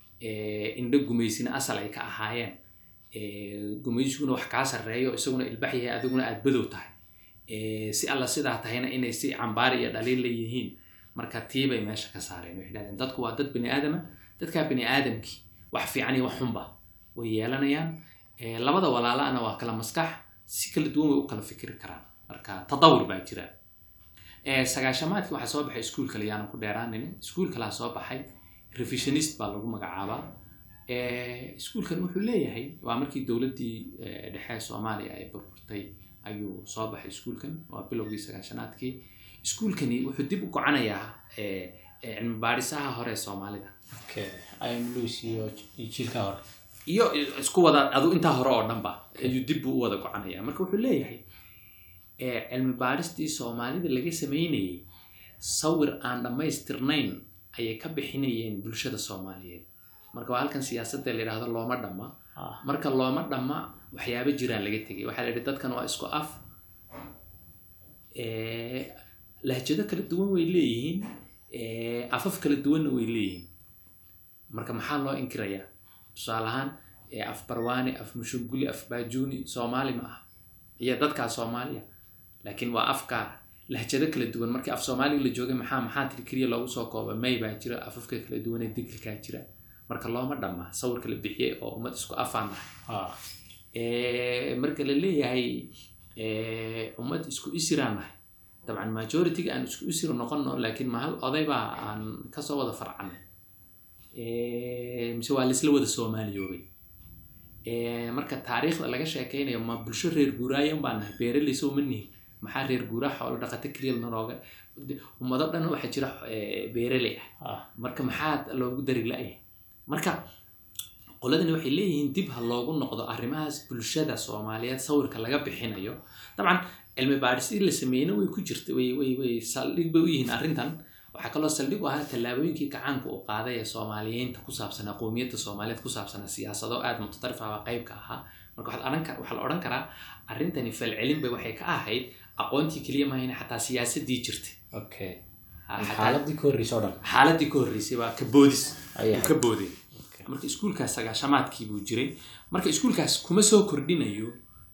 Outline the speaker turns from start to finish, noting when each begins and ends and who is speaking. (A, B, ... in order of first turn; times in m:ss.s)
0:00.2-0:02.5 A
0:03.1-0:06.9 A
0:07.5-0:23.5 A
0:24.5-0:30.2 A
0:30.9-0:43.7 A
0:44.0-0:46.4 B
0:46.9-0:51.2 A
0:52.2-0:54.8 A
0:55.4-1:02.1 A
1:02.4-1:02.6 B
1:02.6-1:06.4 A
1:08.2-1:08.9 A
1:09.5-1:13.5 A
1:14.5-1:20.2 A
1:20.8-1:21.8 A
1:22.4-1:32.7 A
1:32.9-1:33.2 B
1:33.7-1:35.6 A
1:36.2-1:38.2 A
1:38.7-1:43.2 A
1:44.2-1:46.6 A
1:47.7-2:00.2 A
2:01.2-2:24.6 A
2:24.7-2:25.2 B
2:25.7-2:26.2 A
2:25.8-2:27.0 B
2:27.0-2:34.3 A
2:28.9-2:29.3 B
2:29.9-2:30.3 B